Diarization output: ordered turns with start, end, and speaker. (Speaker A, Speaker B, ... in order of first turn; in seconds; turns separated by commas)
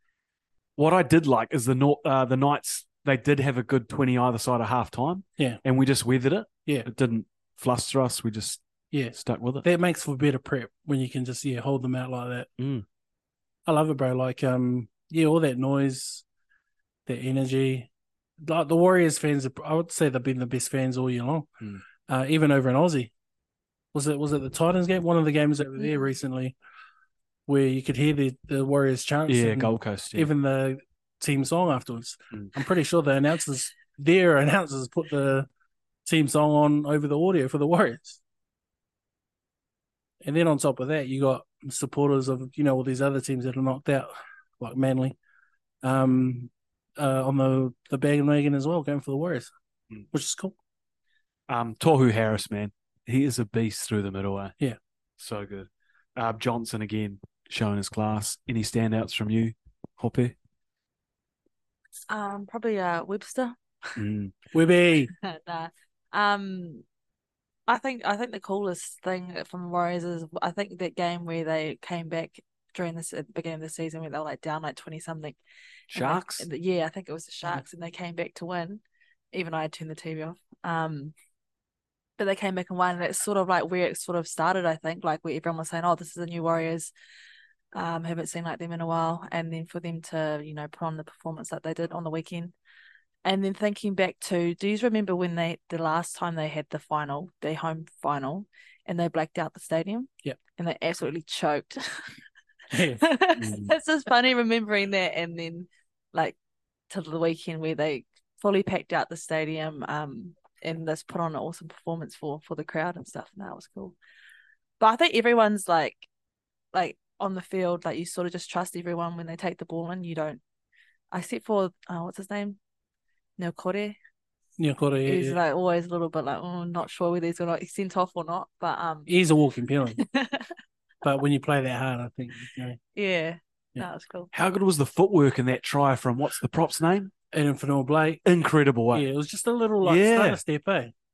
Speaker A: 0.8-8.6, Speaker B: 8.9-12.5, Speaker A: 9.1-9.7, Speaker A: 12.6-12.8, Speaker B: 13.7-16.2, Speaker B: 17.1-17.9, Speaker B: 18.4-21.5, Speaker B: 22.1-23.1, Speaker B: 23.9-26.5, Speaker B: 27.5-35.5, Speaker A: 29.3-30.3, Speaker B: 36.0-38.2, Speaker B: 40.2-45.2, Speaker B: 45.8-49.5, Speaker B: 50.1-50.5, Speaker A: 51.5-54.5, Speaker A: 55.2-60.3, Speaker C: 62.1-64.0, Speaker A: 64.0-64.3, Speaker B: 64.5-65.1, Speaker C: 65.2-66.8, Speaker C: 67.7-75.4, Speaker A: 75.9-76.5, Speaker C: 75.9-78.8, Speaker C: 79.3-81.1, Speaker C: 82.2-86.9, Speaker C: 87.7-92.5, Speaker C: 93.2-102.1, Speaker B: 102.7-103.0, Speaker C: 102.9-106.4, Speaker A: 103.4-103.7, Speaker C: 106.9-114.0, Speaker C: 114.8-116.0, Speaker C: 116.7-120.4, Speaker C: 121.1-122.6, Speaker C: 123.4-124.0, Speaker B: 124.6-125.4, Speaker C: 125.0-129.1, Speaker B: 129.1-130.0, Speaker C: 130.0-130.5, Speaker B: 131.0-132.8, Speaker C: 132.9-134.3, Speaker A: 134.3-137.1, Speaker B: 137.3-138.2, Speaker A: 138.2-139.1, Speaker B: 138.9-140.9, Speaker A: 139.8-140.4